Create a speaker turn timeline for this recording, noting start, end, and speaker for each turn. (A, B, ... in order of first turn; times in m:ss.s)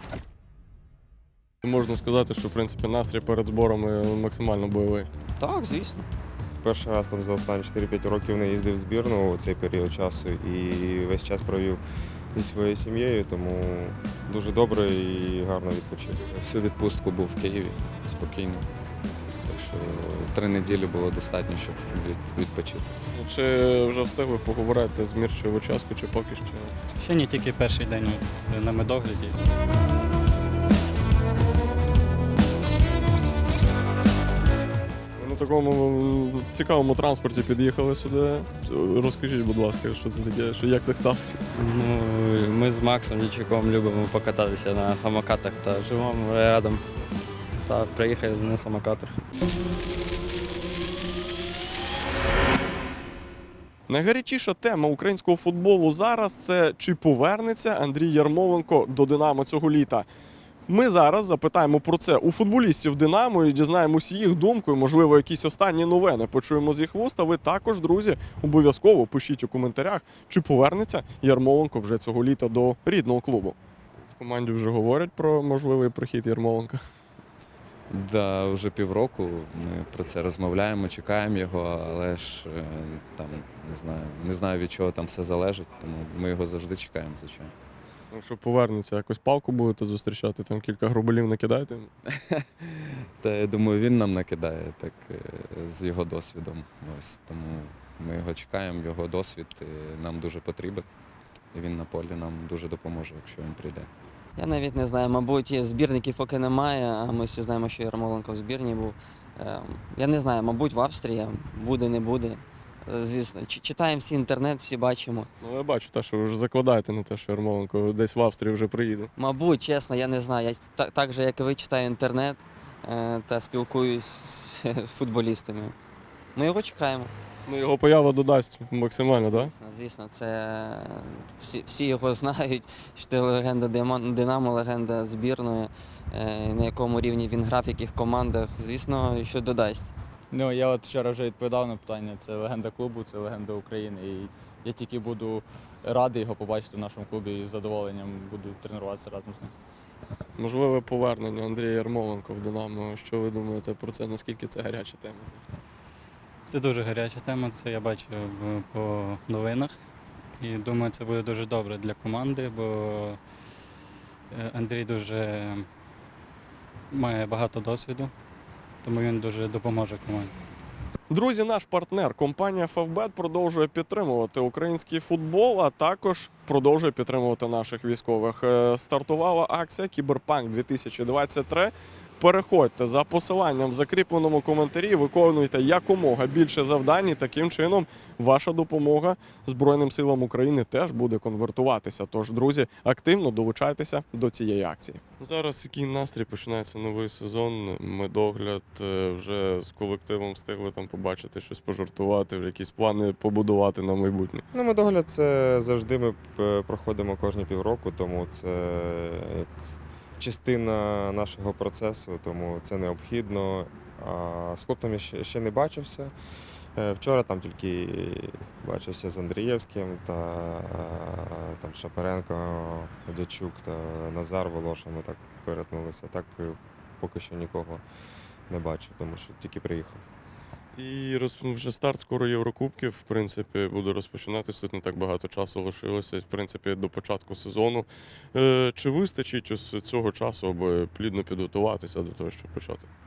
0:01.6-0:05.1 A
0:05.4-0:06.0 B
0:06.6-0:11.8 C
0:12.3-0:16.3 C
0:16.4-0:18.7 D
0:19.4-0:23.0 D
0:23.1-0:26.7 A
0:27.0-0:29.4 E
0:35.2-0:41.4 A
0:41.5-0:46.9 F
0:47.6-0:49.2 F
0:53.9-1:00.0 A
1:00.7-1:13.6 A
1:14.1-1:16.8 A
1:17.9-1:27.5 D
1:28.1-1:31.9 A
1:32.2-1:40.8 D
1:41.5-1:43.9 D
1:44.4-1:55.3 B
1:55.4-1:59.1 A
1:59.2-2:05.7 B
2:06.4-2:07.1 B
2:07.4-2:09.5 A
2:09.3-2:19.9 B
2:20.3-2:29.5 G
2:30.4-2:35.4 A
2:36.5-2:39.7 E
2:40.4-2:43.2 E
2:44.3-2:45.6 E
2:46.9-2:48.1 E
2:48.8-2:50.3 E
2:51.1-3:24.4 A
3:24.5-3:29.5 C
3:30.2-3:36.1 C
3:36.8-3:47.8 C
3:48.5-3:50.0 C
3:50.8-4:02.9 A